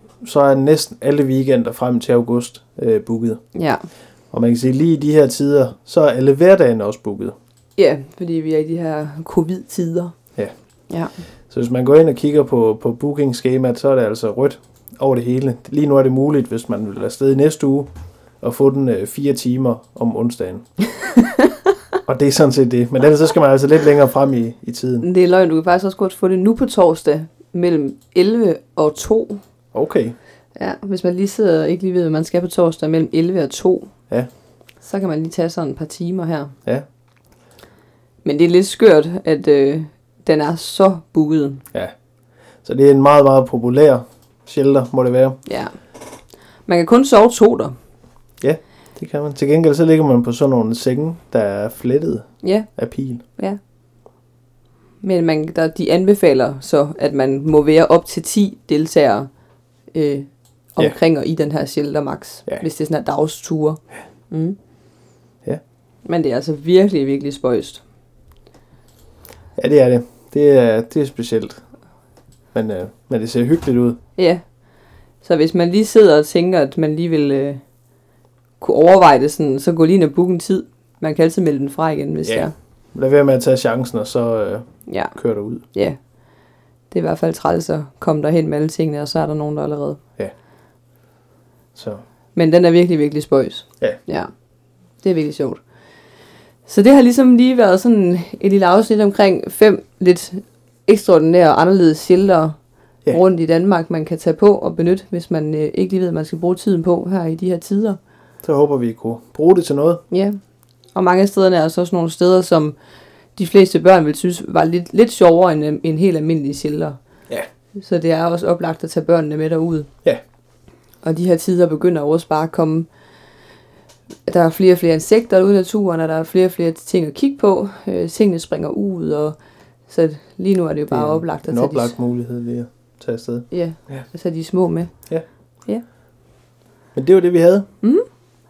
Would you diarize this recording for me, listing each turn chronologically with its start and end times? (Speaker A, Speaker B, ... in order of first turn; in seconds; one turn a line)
Speaker A: 0.2-3.4
Speaker B: 3.5-3.9
Speaker A: 4.3-7.3
Speaker B: 7.8-10.1
Speaker A: 11.5-17.9
Speaker A: 18.4-20.6
Speaker A: 22.1-25.1
Speaker B: 25.0-29.4
Speaker A: 29.7-30.2
Speaker B: 30.6-33.9
Speaker B: 34.8-36.5
Speaker B: 38.2-41.6
Speaker A: 42.6-45.4
Speaker B: 45.5-45.7
Speaker B: 46.7-47.8
Speaker A: 48.4-53.2
Speaker B: 52.4-52.7
Speaker B: 55.0-59.3
Speaker B: 59.9-63.8
Speaker B: 64.3-64.6
Speaker B: 66.1-67.8
Speaker A: 69.6-71.6
Speaker A: 72.5-74.0
Speaker B: 74.2-74.4
Speaker B: 75.2-77.6
Speaker B: 78.6-82.5
Speaker A: 82.2-85.6
Speaker B: 84.9-85.2
Speaker B: 86.9-90.0
Speaker A: 91.8-92.0
Speaker B: 92.4-94.3
Speaker B: 95.0-95.6
Speaker B: 96.7-102.6
Speaker B: 103.1-108.0
Speaker A: 108.4-110.0
Speaker B: 110.1-110.4
Speaker B: 111.0-112.8
Speaker B: 113.4-117.0
Speaker B: 117.8-119.9
Speaker B: 121.0-122.9
Speaker B: 124.3-129.4
Speaker B: 129.9-131.9
Speaker A: 130.9-134.1
Speaker B: 133.5-134.9
Speaker A: 136.9-137.7